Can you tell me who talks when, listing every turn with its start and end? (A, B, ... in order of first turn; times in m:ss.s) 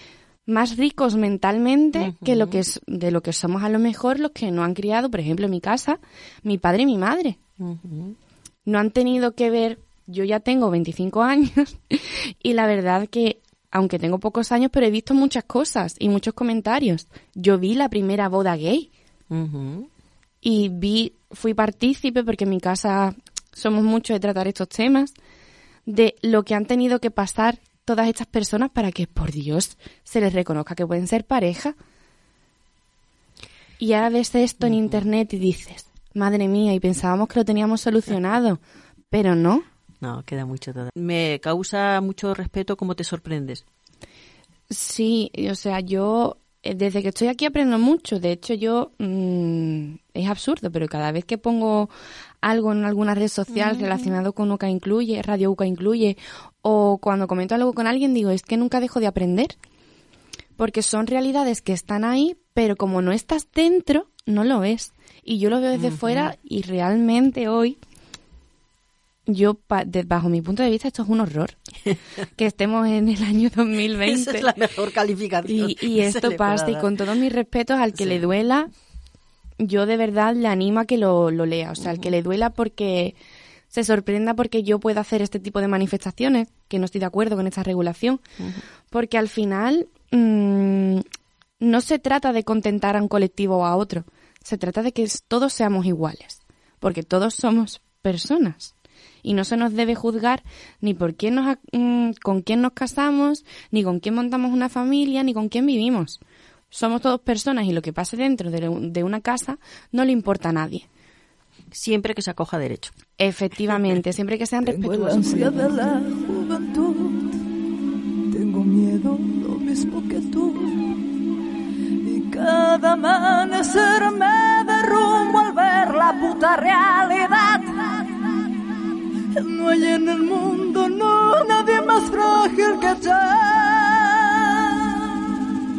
0:00.5-0:07.4 A
0:02.0-0:02.6 B
0:07.6-0:08.2 B
0:08.7-0:18.9 A
0:19.3-0:19.9 B
0:20.4-0:25.1 A
0:25.9-0:31.8 A
0:33.8-0:39.6 A
0:40.0-0:43.6 B
0:44.7-0:51.9 A
0:52.4-0:59.6 A
0:53.5-0:54.2 B
1:00.6-1:07.8 A
1:05.8-1:06.3 B
1:09.3-1:11.6 A
1:12.4-1:14.5 A
1:14.0-1:17.0 B
1:15.5-1:18.7 A
1:18.0-1:18.2 B
1:19.6-1:23.2 A
1:21.8-1:22.1 B
1:23.7-1:28.2 A
1:28.9-1:31.0 A
1:31.6-1:38.7 A
1:39.2-1:46.2 A
1:46.7-1:50.9 A
1:51.7-1:52.9 B
1:53.2-1:55.7 A
1:54.6-1:57.4 C
1:58.3-2:00.8 C
2:02.0-2:08.0 C
2:09.3-2:15.2 C